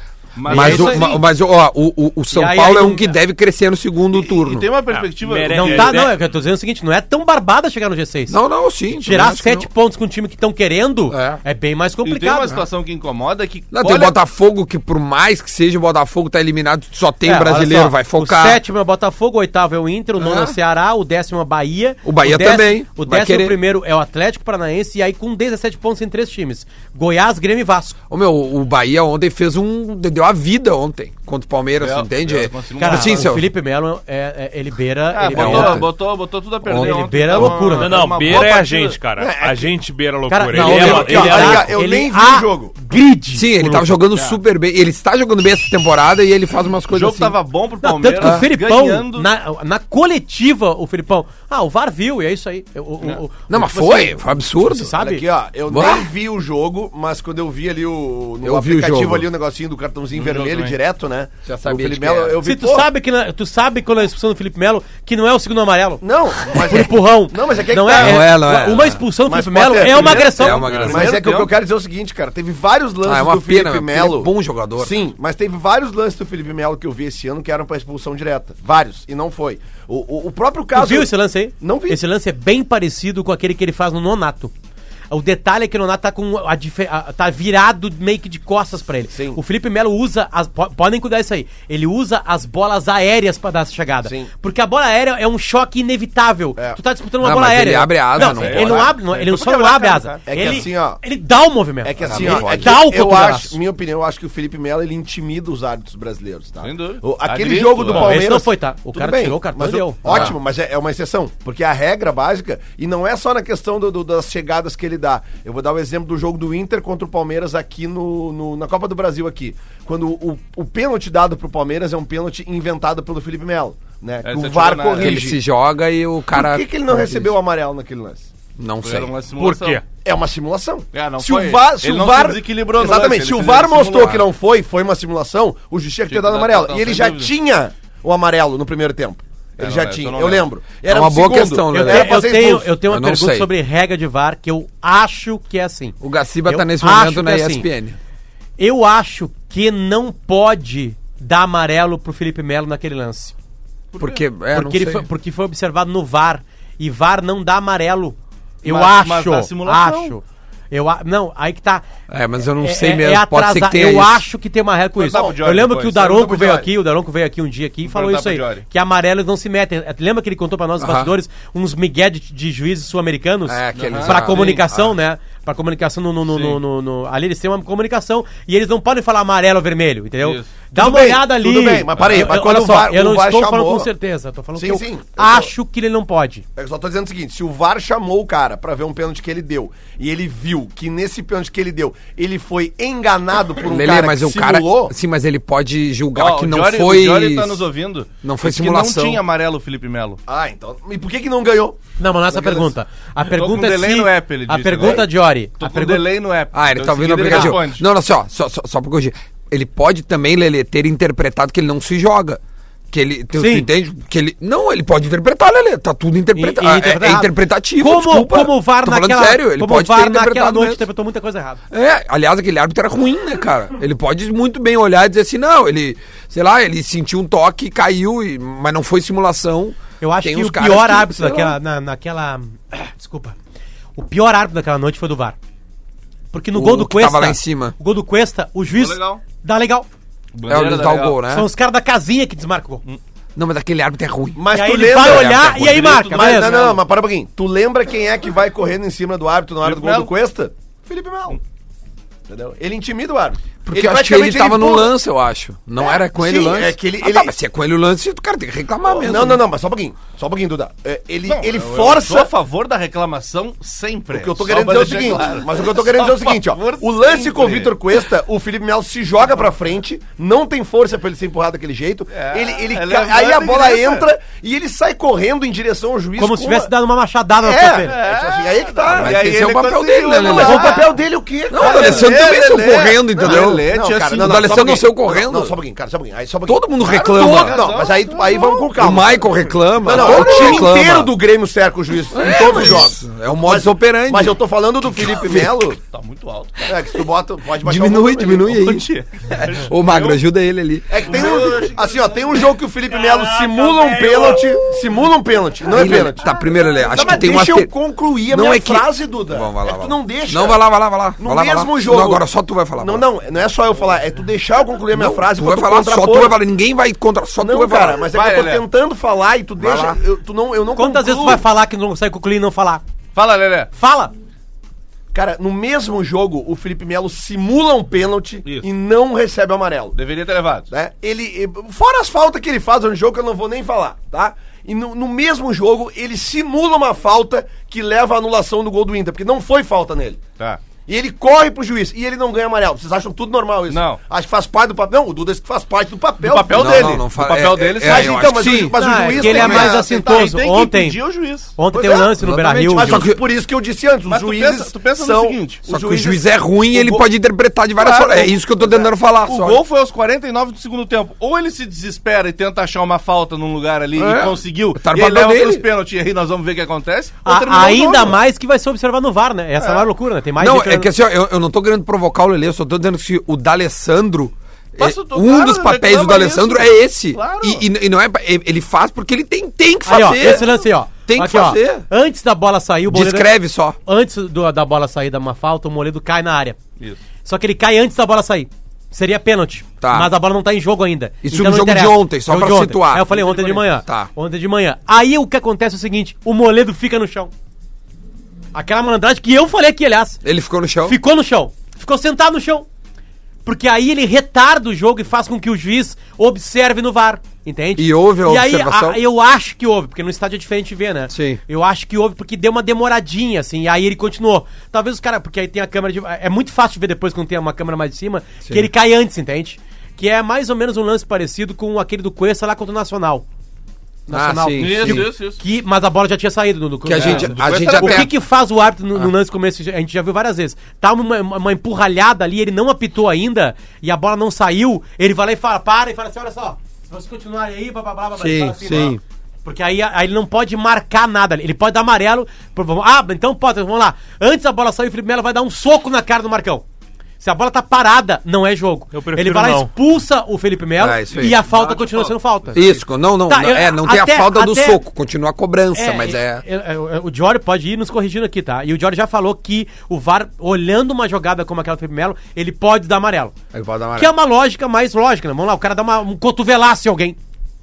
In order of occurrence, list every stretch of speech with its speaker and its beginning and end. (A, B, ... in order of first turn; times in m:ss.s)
0:00.4-0:01.2 A
0:00.5-0:04.7 B
0:00.5-0:01.1 C
0:02.3-0:03.2 C
0:04.1-0:06.0 A
0:04.9-0:06.2 D
0:05.5-0:08.4 C
0:08.3-0:09.7 B
0:08.9-0:12.5 C
0:11.1-0:11.4 B
0:12.0-0:14.2 A
0:13.7-0:18.6 B
0:17.2-0:27.9 C
0:20.2-0:20.6 B
0:22.0-0:23.6 B
0:28.1-0:33.5 B
0:31.8-0:33.4 A
0:32.8-0:35.8 C
0:35.1-0:39.0 A
0:35.3-0:35.9 B
0:36.6-0:37.5 B
0:36.7-0:38.0 C
0:37.6-0:41.7 D
0:39.2-0:39.8 E
0:40.3-0:44.0 C
0:40.5-0:42.7 E
0:40.8-0:41.1 B
0:43.3-0:47.4 B
0:46.9-0:49.3 A
0:47.8-0:55.2 C
0:53.5-0:54.9 B
0:54.9-1:02.9 E
0:55.7-0:56.1 B
0:58.4-0:59.3 B
1:00.1-1:00.8 A
1:01.4-1:02.4 B
1:02.4-1:10.7 C
1:06.0-1:08.3 E
1:07.9-1:09.0 B
1:09.2-1:22.0 E
1:09.8-1:11.5 A
1:10.3-1:11.0 B
1:13.0-1:15.0 B
1:20.7-1:24.5 C
1:25.1-1:43.6 C
1:29.1-1:29.4 E
1:34.0-1:34.3 E
1:37.2-1:38.9 B
1:38.2-1:40.6 A
1:40.3-1:41.0 E
1:41.8-2:05.4 E
1:42.0-1:42.7 B
1:46.6-1:48.2 A
1:47.9-1:50.3 C
1:50.0-1:50.4 B
2:04.2-2:05.2 A
2:05.0-2:07.3 B
2:06.3-2:08.3 E
2:08.6-2:09.1 B
2:08.8-2:09.8 A
2:09.3-2:09.8 D
2:10.0-2:22.7 E
2:10.9-2:14.2 A
2:14.0-2:14.2 B
2:16.1-2:17.3 A
2:19.6-2:20.5 A
2:20.9-2:23.5 B
2:21.7-2:27.7 C
2:26.0-2:28.0 B
2:28.6-2:33.3 C
2:33.9-2:34.2 A
2:34.0-2:35.0 B
2:34.5-2:41.8 C
2:38.6-2:40.2 A
2:42.1-2:44.2 B
2:42.6-3:06.4 C
2:45.0-2:46.7 A
2:47.8-2:48.6 A
2:50.8-2:51.1 B
2:53.5-2:54.9 B
2:53.7-2:54.6 A
2:56.3-2:56.6 A
3:00.2-3:00.5 A
3:00.7-3:03.9 E
3:02.0-3:02.2 A
3:04.6-3:05.5 E
3:06.6-3:14.9 E
3:13.6-3:17.7 B
3:16.2-3:20.2 A
3:18.2-3:19.2 B
3:20.3-3:21.8 E
3:22.0-3:26.1 C
3:22.3-3:22.7 E
3:23.3-3:25.1 A
3:25.6-3:27.8 A
3:26.5-3:32.4 B
3:27.2-3:27.5 C
3:32.9-3:40.8 B
3:33.3-3:33.7 C
3:36.3-3:41.6 C
3:41.7-3:51.6 B
3:50.0-3:53.4 C
3:54.0-3:55.4 C
3:56.3-3:59.9 C
3:56.5-3:57.7 B
3:58.7-3:59.2 A
4:00.3-4:01.2 A
4:00.5-4:01.5 B
4:01.3-4:02.8 C
4:03.4-4:05.8 B
4:04.4-4:11.4 E
4:04.5-4:06.7 C
4:05.6-4:06.8 A
4:09.6-4:10.1 A
4:12.3-4:14.9 E
4:13.6-4:19.4 B
4:15.8-4:17.3 E
4:19.0-4:22.3 E
4:21.2-4:27.8 A
4:24.1-4:36.7 E
4:32.1-4:34.1 A
4:36.2-4:38.0 C
4:37.4-4:39.3 E
4:37.8-4:40.9 A
4:38.8-4:40.8 B
4:40.1-4:49.3 E
4:40.4-4:40.9 C
4:41.5-4:45.6 B
4:41.6-4:44.6 A
4:46.4-4:47.6 B
4:46.8-4:48.5 A
4:48.5-4:51.1 B
4:49.8-4:55.8 E
4:49.9-4:50.7 A
4:52.1-4:55.6 B
4:55.9-4:56.7 A
4:56.6-4:58.7 E
4:57.6-5:01.2 B
4:58.5-5:00.2 A
5:00.9-5:10.6 E
5:01.0-5:04.4 A
5:05.7-5:07.7 B
5:08.3-5:13.0 B
5:11.2-5:12.2 E
5:12.8-5:16.4 E
5:14.9-5:18.0 B
5:17.4-5:21.4 E
5:18.1-5:18.6 A
5:19.6-5:20.0 B
5:20.7-5:22.8 C
5:23.1-5:23.7 A
5:23.8-5:24.1 C
5:25.1-5:30.0 E
5:29.9-5:30.7 A
5:30.7-5:40.2 E
5:40.8-5:47.0 E
5:43.7-5:44.0 A
5:46.2-5:48.5 A
5:46.5-5:49.6 B
5:47.8-5:50.3 E
5:48.7-5:51.0 C
5:49.2-5:51.5 A
5:51.5-5:53.1 C
5:51.7-5:52.2 E
5:52.2-5:53.2 B
5:52.7-5:56.2 E
5:54.1-5:55.7 A
5:55.7-5:59.6 B
5:56.7-5:57.0 A
5:57.8-6:08.2 A
6:04.0-6:05.6 B
6:07.2-6:10.9 C
6:09.6-6:09.8 A
6:10.4-6:20.5 B
6:14.8-6:17.6 A
6:19.8-6:23.3 C
6:21.1-6:21.8 B
6:22.9-6:23.8 B
6:23.8-6:26.6 C
6:27.2-6:37.3 C
6:29.8-6:30.1 B
6:31.2-6:33.1 B
6:33.1-6:33.6 A
6:33.8-6:34.1 B
6:38.5-6:40.2 C
6:40.2-6:41.0 B
6:40.8-6:42.7 C
6:43.4-7:03.2 C
6:47.8-6:49.0 B
6:51.1-6:51.4 B
6:58.4-6:58.7 B
7:04.1-7:26.6 C
7:04.1-7:05.1 B
7:04.6-7:05.4 A
7:06.8-7:08.1 B
7:06.9-7:08.1 A
7:18.2-7:19.0 B
7:27.2-7:32.8 C
7:28.9-7:29.7 D
7:30.8-7:31.4 B
7:31.2-7:32.7 A
7:32.5-7:36.4 B
7:33.3-7:34.8 C
7:35.7-7:43.3 C
7:43.5-7:44.1 B
7:44.0-7:47.2 C